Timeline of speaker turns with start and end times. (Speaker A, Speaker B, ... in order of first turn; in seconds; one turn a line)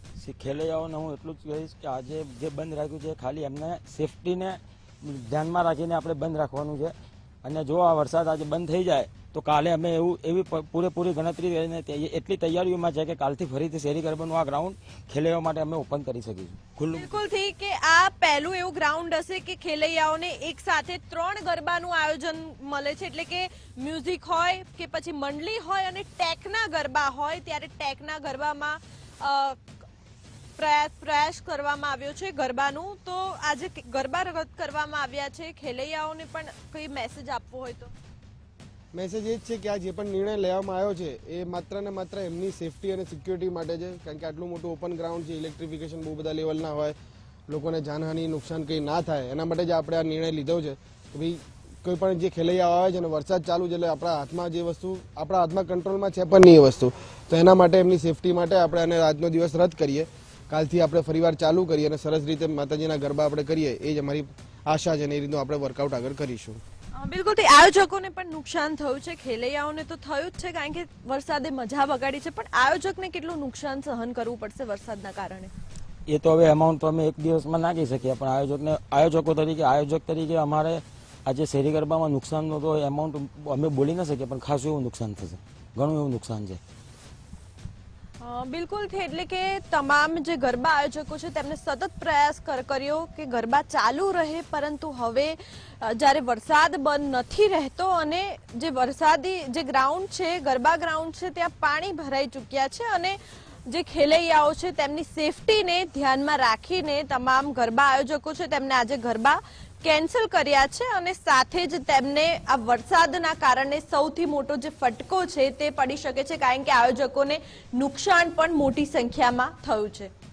Speaker A: 0.2-17.1
Speaker B: 16.9-29.6
Speaker B: 30.6-37.9
Speaker C: 38.9-46.9
Speaker C: 47.5-66.6
Speaker B: 66.9-75.5
Speaker A: 76.1-86.6
Speaker B: 88.2-120.1